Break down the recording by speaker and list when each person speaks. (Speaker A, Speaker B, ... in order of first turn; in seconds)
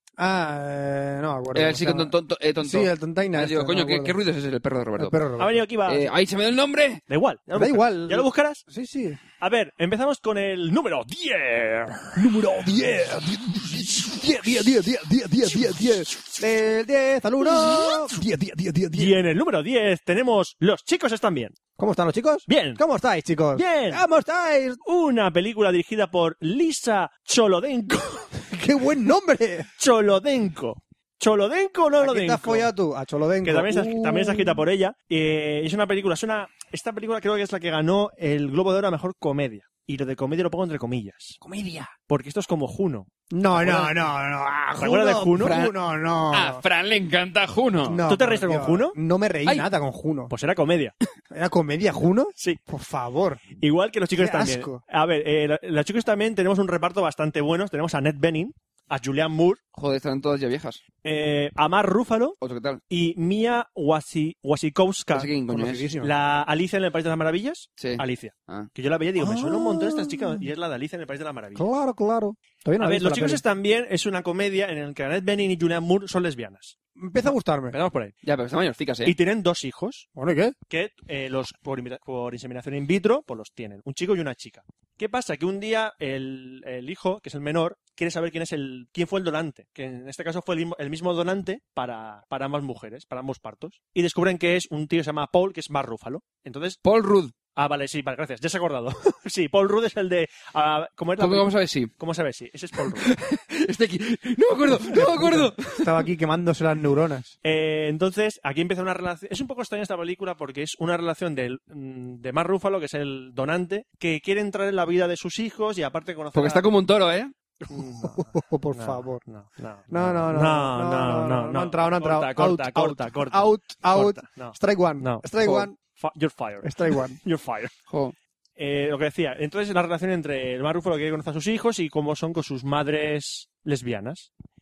Speaker A: 0.2-4.1, 5.0-5.6, 7.5-9.2, 12.2-19.1, 21.8-24.8, 28.4-29.7, 32.0-34.6, 41.4-41.9, 43.3-46.6, 47.8-50.3, 51.3-53.4, 54.1-54.8, 65.5-66.1, 69.2-70.5, 71.5-73.4, 77.0-77.7, 80.2-80.5, 104.8-107.3, 117.7-119.2, 119.9-125.8, 126.6-127.2
Speaker B: 1.5-5.2, 5.8-7.0, 45.4-45.8, 46.3-48.0, 59.7-60.8, 62.4-62.8, 65.1-65.9, 67.8-68.7, 78.2-79.2, 96.8-97.3, 101.2-101.9, 102.8-106.0, 116.3-117.3, 125.4-125.7, 127.9-128.1
Speaker C: 5.4-6.1, 7.1-8.6, 9.4-12.3, 15.5-16.3, 17.4-18.1, 18.9-21.6, 22.5-22.8, 23.5-24.0, 24.8-28.3, 29.8-32.7, 33.4-41.4, 42.1-44.0, 44.8-45.5, 48.1-49.0, 50.3-50.9, 53.6-59.6, 61.0-62.4, 62.9-65.3, 66.0-71.7, 72.8-78.1, 79.0-80.1, 80.7-96.8, 97.5-103.1, 107.4-116.7, 117.7-125.3, 126.0-127.7, 128.6-134.3